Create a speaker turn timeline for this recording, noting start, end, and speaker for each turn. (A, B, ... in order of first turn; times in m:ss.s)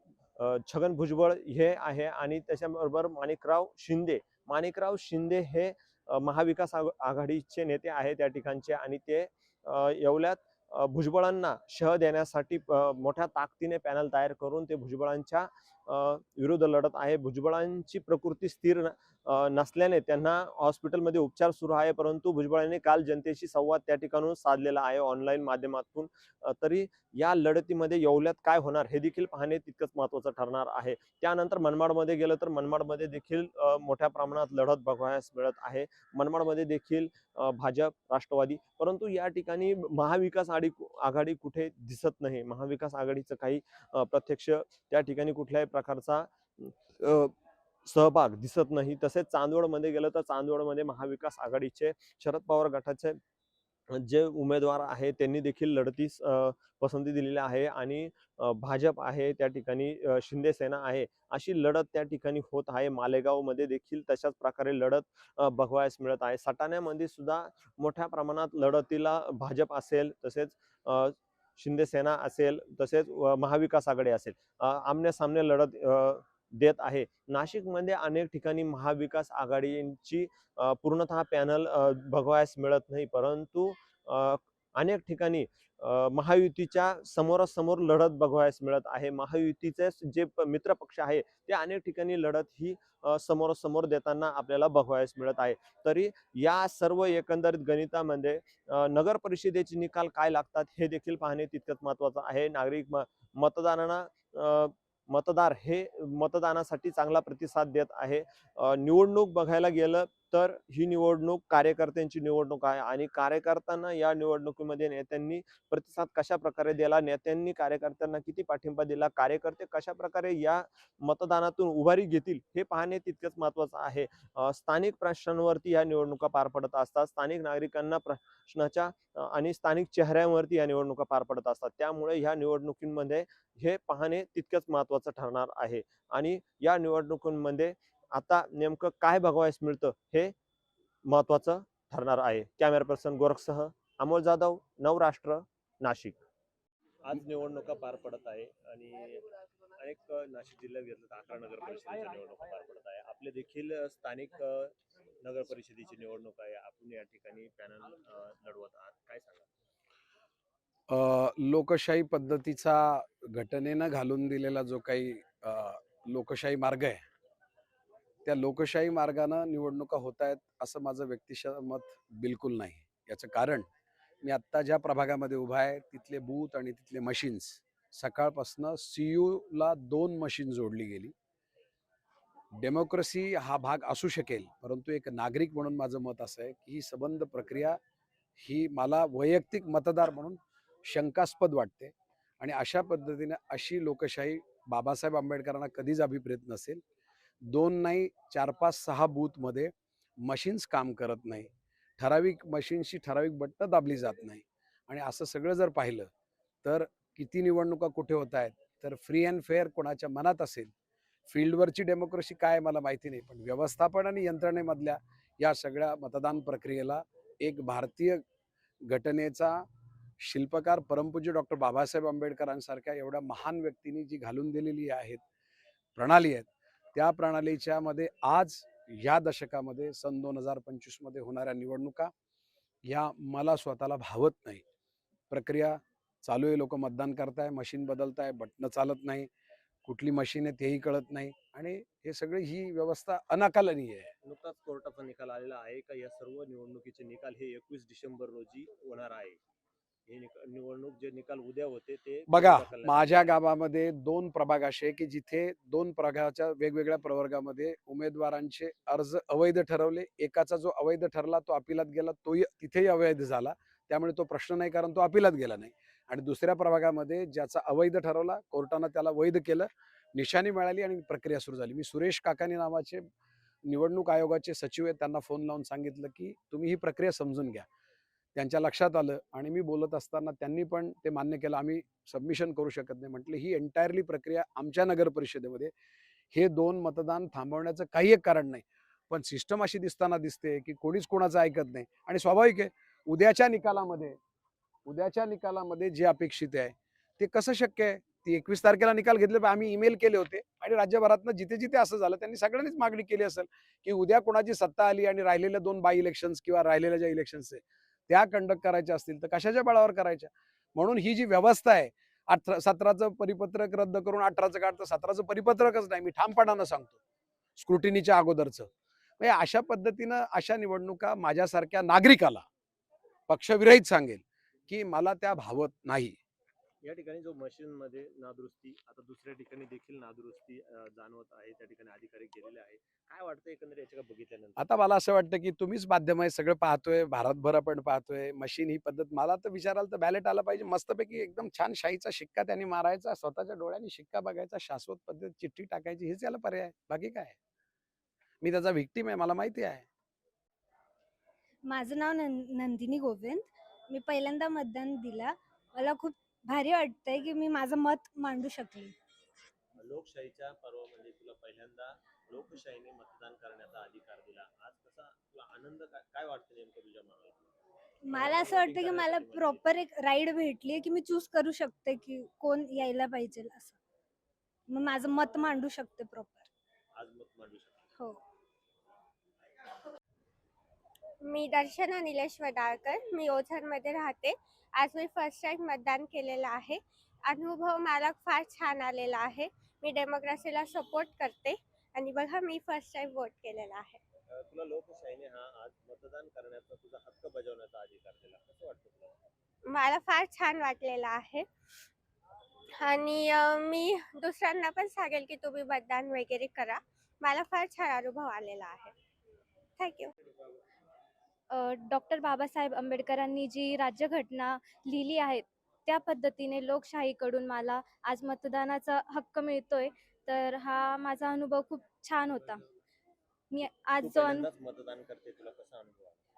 0:00.4-0:47.3 A
0:47.8-0:53.2 A
0:53.9-2:20.3 A
2:21.0-2:26.2 A
2:27.0-2:39.5 A
2:40.9-2:47.0 B
2:48.2-2:53.7 B
2:54.2-3:01.1 B
3:02.6-3:07.8 B
3:08.4-3:16.8 B
3:17.5-3:26.1 B
3:26.6-3:30.7 B
3:31.3-3:38.2 B
3:38.8-3:39.6 B
3:40.2-3:45.2 B
3:46.0-3:52.1 B
3:52.8-3:54.6 B
3:55.3-3:59.3 B
3:59.8-4:04.1 B
4:04.2-4:09.4 A
4:10.1-4:13.4 A
4:12.3-4:33.0 B
4:33.6-4:37.6 B
4:38.3-4:45.7 B
4:46.3-4:54.2 B
4:54.8-5:17.0 B
5:17.6-5:18.7 B
5:19.2-5:22.4 B
5:23.3-5:26.2 B
5:26.8-5:34.7 A
5:34.6-5:47.3 B
5:48.4-5:49.8 B
5:51.7-5:58.9 C
5:59.8-6:07.5 A
6:08.1-6:13.8 C
6:08.1-6:09.6 A
6:14.7-6:16.5 C
6:16.9-6:17.9 A
6:21.2-6:34.0 D
6:34.3-6:39.2 A
6:39.7-6:41.5 D
6:42.8-6:48.9 D
6:49.8-6:50.1 D
6:51.5-7:02.6 E
7:03.5-7:04.4 E
7:04.0-7:06.2 A